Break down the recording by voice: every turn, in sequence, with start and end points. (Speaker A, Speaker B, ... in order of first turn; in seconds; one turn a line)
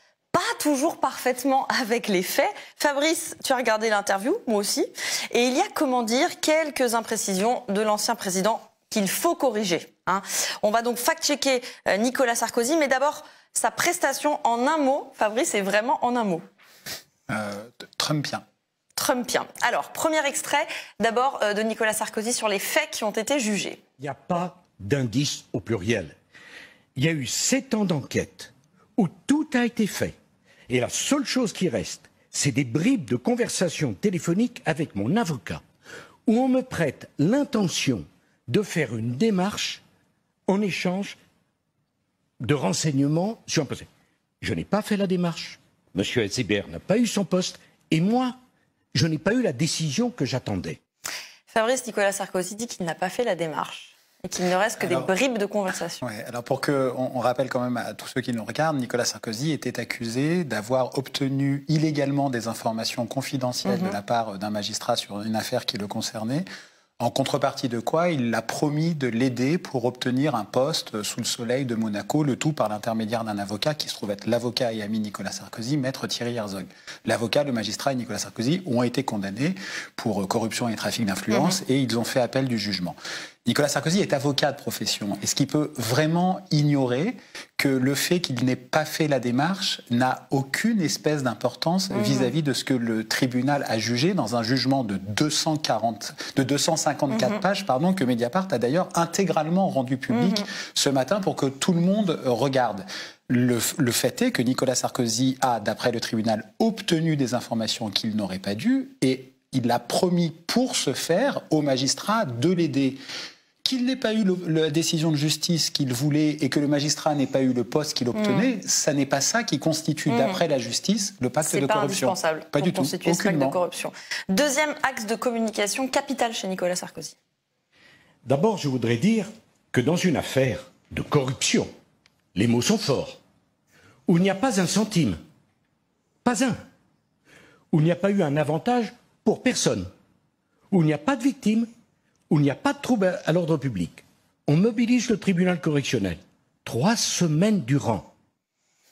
Speaker A: 0.3-16.5
Speaker B: 17.3-18.4
Speaker A: 19.0-23.8
Speaker C: 24.0-26.1
Speaker C: 27.0-30.1
Speaker C: 30.7-35.6
Speaker C: 36.3-39.8
Speaker C: 40.5-41.2
Speaker C: 42.4-43.9
Speaker C: 44.4-48.3
Speaker C: 48.9-50.8
Speaker A: 51.5-56.0
Speaker B: 54.8-55.1
Speaker B: 56.0-66.5
Speaker A: 63.6-64.0
Speaker B: 67.0-113.0
Speaker A: 91.9-92.3
Speaker A: 97.1-97.4
Speaker A: 100.1-100.4
Speaker B: 113.6-123.6
Speaker A: 118.1-118.5
Speaker A: 120.1-120.4
Speaker A: 121.4-127.2
Speaker C: 128.2-131.7
Speaker C: 132.3-133.2
Speaker C: 134.1-135.2
Speaker C: 136.2-136.6
Speaker C: 137.7-139.9
Speaker C: 140.7-141.7
Speaker C: 142.3-148.1